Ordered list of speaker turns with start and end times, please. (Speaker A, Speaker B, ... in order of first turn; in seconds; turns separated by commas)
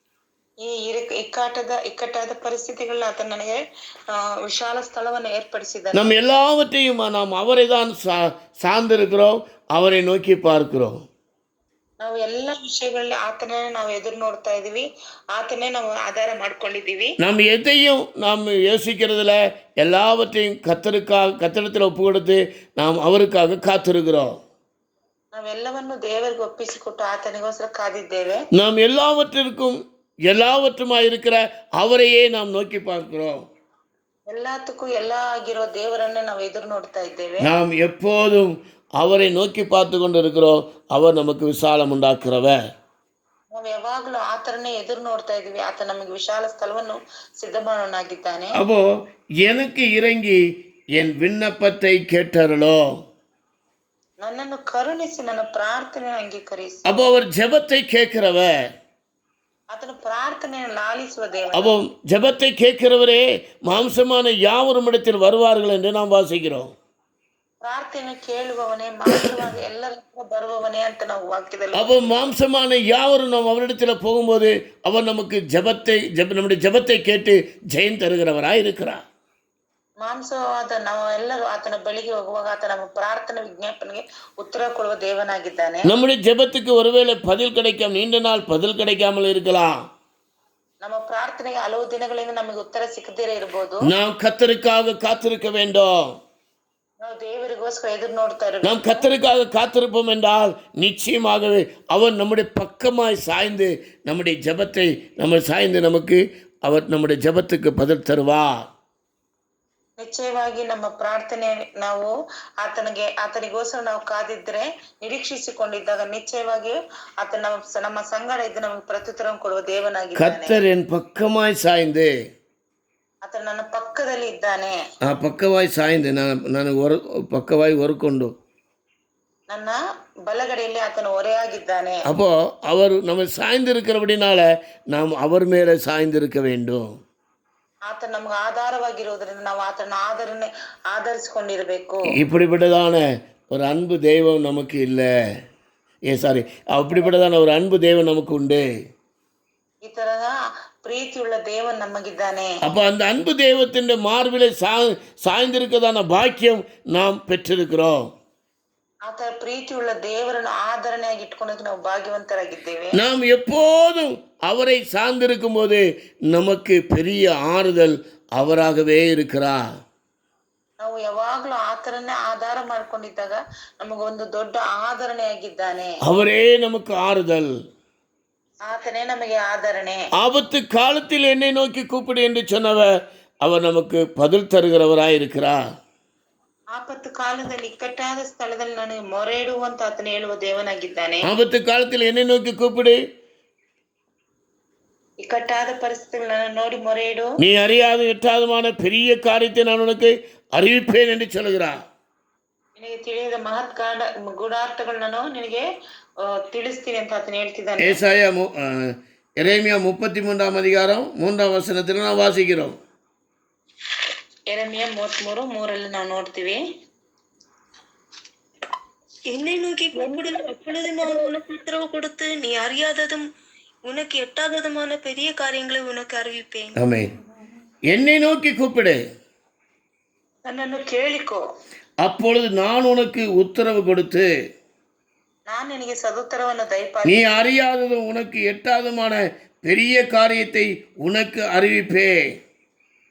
Speaker A: 0.6-3.6, Speaker A: 4.1-6.1, Speaker B: 5.9-11.0, Speaker A: 12.0-17.1, Speaker B: 17.2-24.3, Speaker A: 25.3-28.4, Speaker B: 28.5-33.4, Speaker A: 34.3-37.5, Speaker B: 37.4-42.6, Speaker A: 43.5-48.6, Speaker B: 48.5-48.8, Speaker B: 49.4-50.4, Speaker B: 50.9-52.8, Speaker A: 54.2-57.0, Speaker B: 56.9-58.5, Speaker A: 59.7-61.8, Speaker B: 61.5-66.7, Speaker A: 67.6-72.3, Speaker B: 71.7-79.0, Speaker A: 80.0-86.0, Speaker B: 85.8-89.7, Speaker A: 90.8-93.9, Speaker B: 93.8-96.1, Speaker A: 97.0-99.1, Speaker B: 98.6-108.5, Speaker A: 110.0-112.1, Speaker A: 112.6-120.6, Speaker B: 120.2-122.1, Speaker A: 123.2-124.7, Speaker B: 125.0-128.3, Speaker A: 129.5-132.1, Speaker B: 132.1-136.8, Speaker A: 137.9-142.2, Speaker B: 142.1-145.1, Speaker B: 146.1-148.6, Speaker A: 149.8-152.6, Speaker B: 152.6-158.1, Speaker A: 159.1-163.0, Speaker B: 162.9-169.6, Speaker A: 170.8-175.9, Speaker B: 176.0-177.5, Speaker A: 178.7-180.0, Speaker B: 180.2-182.9, Speaker B: 183.4-185.6, Speaker A: 186.7-191.3, Speaker B: 191.2-193.0, Speaker A: 195.2-197.4, Speaker B: 197.4-201.8, Speaker A: 202.8-205.6, Speaker A: 206.2-208.0, Speaker B: 207.8-212.8, Speaker A: 214.5-216.6, Speaker C: 219.3-223.3, Speaker A: 219.9-220.4, Speaker A: 221.0-221.3, Speaker C: 223.8-226.7, Speaker B: 226.8-227.1, Speaker B: 227.9-229.0, Speaker A: 230.4-231.4, Speaker B: 232.0-234.3, Speaker A: 235.5-237.4, Speaker B: 237.0-242.1